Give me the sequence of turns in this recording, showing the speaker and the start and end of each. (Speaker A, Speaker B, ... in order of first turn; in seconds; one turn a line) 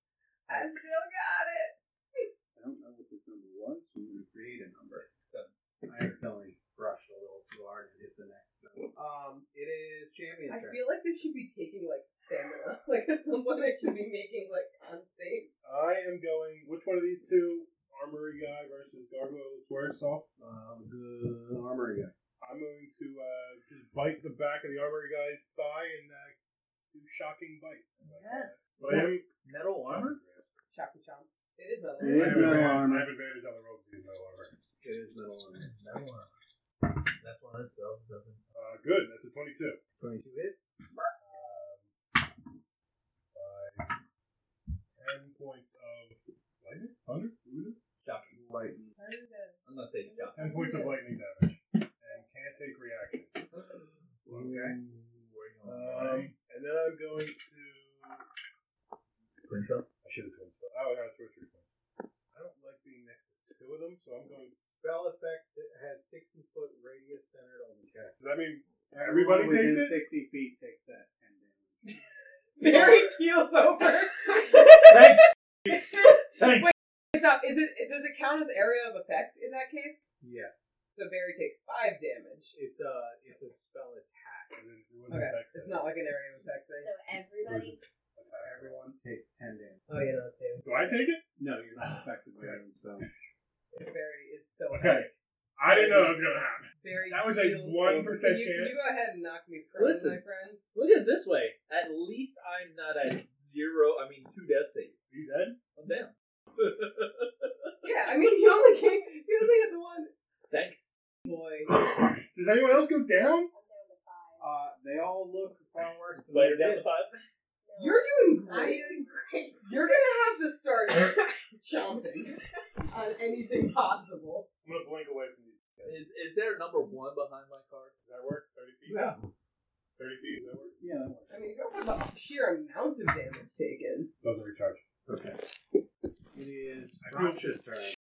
Speaker A: 0.5-2.3
Speaker B: 2.5-5.1
Speaker C: 5.3-5.5
Speaker B: 5.8-10.8
Speaker A: 10.5-15.5
Speaker D: 15.6-20.3
Speaker B: 20.4-22.1
Speaker D: 22.4-26.4
Speaker D: 26.9-29.3
Speaker C: 28.0-30.2
Speaker D: 29.8-30.5
Speaker A: 30.7-32.7
Speaker B: 32.0-33.1
Speaker D: 32.0-34.6
Speaker B: 34.8-35.7
Speaker C: 35.5-36.3
Speaker C: 36.8-38.4
Speaker D: 38.5-39.8
Speaker B: 40.0-40.6
Speaker D: 41.2-41.9
Speaker D: 43.3-44.0
Speaker D: 45.0-47.8
Speaker C: 48.0-48.4
Speaker B: 48.3-48.9
Speaker A: 49.0-51.0
Speaker C: 49.6-50.4
Speaker D: 50.3-53.5
Speaker C: 53.5-56.3
Speaker B: 54.3-54.8
Speaker D: 55.6-58.2
Speaker C: 59.4-59.9
Speaker D: 60.0-61.7
Speaker D: 62.3-64.5
Speaker B: 64.7-68.2
Speaker D: 68.2-70.0
Speaker B: 68.9-71.8
Speaker A: 72.6-75.1
Speaker C: 74.8-75.8
Speaker A: 75.7-80.1
Speaker C: 76.3-76.7
Speaker B: 80.2-80.5
Speaker A: 80.9-82.5
Speaker B: 82.5-84.5
Speaker D: 84.5-85.9
Speaker A: 85.1-86.9
Speaker E: 86.8-87.8
Speaker D: 87.4-88.8
Speaker B: 88.4-89.8
Speaker A: 89.9-91.0
Speaker D: 90.6-91.2
Speaker B: 91.4-93.1
Speaker D: 92.0-93.1
Speaker A: 93.7-95.1
Speaker D: 94.7-98.8
Speaker A: 95.6-100.6
Speaker C: 99.8-100.2
Speaker C: 100.7-105.0
Speaker D: 105.1-105.6
Speaker C: 105.8-107.7
Speaker A: 107.8-110.1
Speaker C: 110.5-110.9
Speaker A: 111.2-111.7
Speaker D: 111.7-113.5
Speaker E: 113.5-114.4
Speaker B: 114.4-116.9
Speaker C: 116.2-117.2
Speaker E: 117.6-120.1
Speaker A: 117.8-119.1
Speaker A: 119.6-124.5
Speaker D: 124.6-126.0
Speaker C: 125.8-127.9
Speaker D: 128.0-129.1
Speaker A: 128.8-129.2
Speaker D: 130.0-130.8
Speaker B: 130.8-131.3
Speaker A: 131.3-134.1
Speaker D: 134.2-134.8
Speaker B: 135.1-135.5
Speaker B: 136.3-137.9
Speaker D: 137.0-137.5